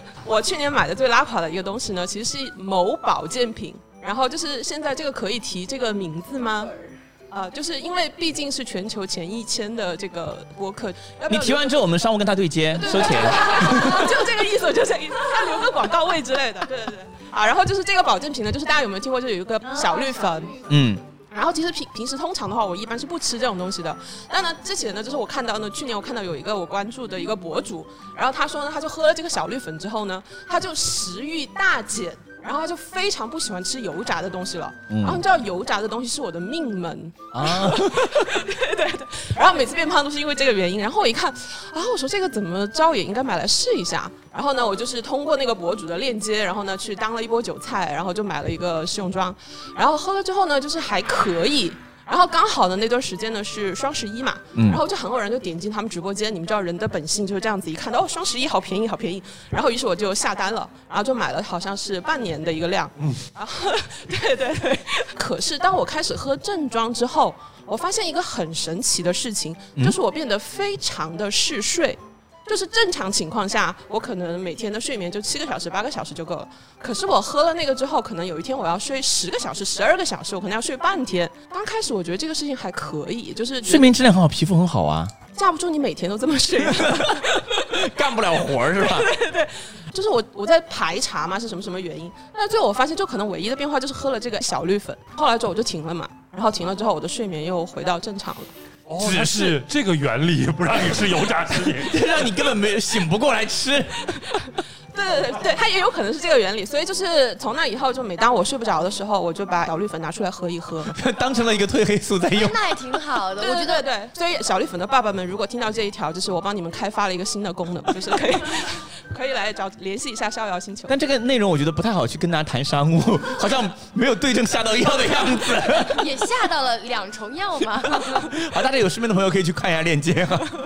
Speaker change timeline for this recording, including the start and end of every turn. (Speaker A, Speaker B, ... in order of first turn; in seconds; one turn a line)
Speaker A: 0.2-11.7
Speaker B: 11.3-14.2
Speaker A: 12.8-20.6
Speaker B: 20.7-21.0
Speaker A: 21.3-83.9
Speaker B: 34.9-35.2
Speaker B: 37.3-38.1
Speaker B: 54.6-54.8
Speaker B: 83.7-85.1
Speaker A: 85.3-87.5
Speaker B: 86.7-87.1
Speaker B: 87.7-89.1
Speaker A: 88.8-98.5
Speaker C: 98.9-102.2
Speaker B: 99.0-99.6
Speaker B: 101.7-104.1
Speaker A: 104.9-110.9
Speaker B: 110.9-112.6
Speaker D: 112.3-113.9
Speaker A: 113.4-120.9
Speaker B: 120.9-126.1
Speaker D: 125.9-128.2
Speaker B: 128.1-130.5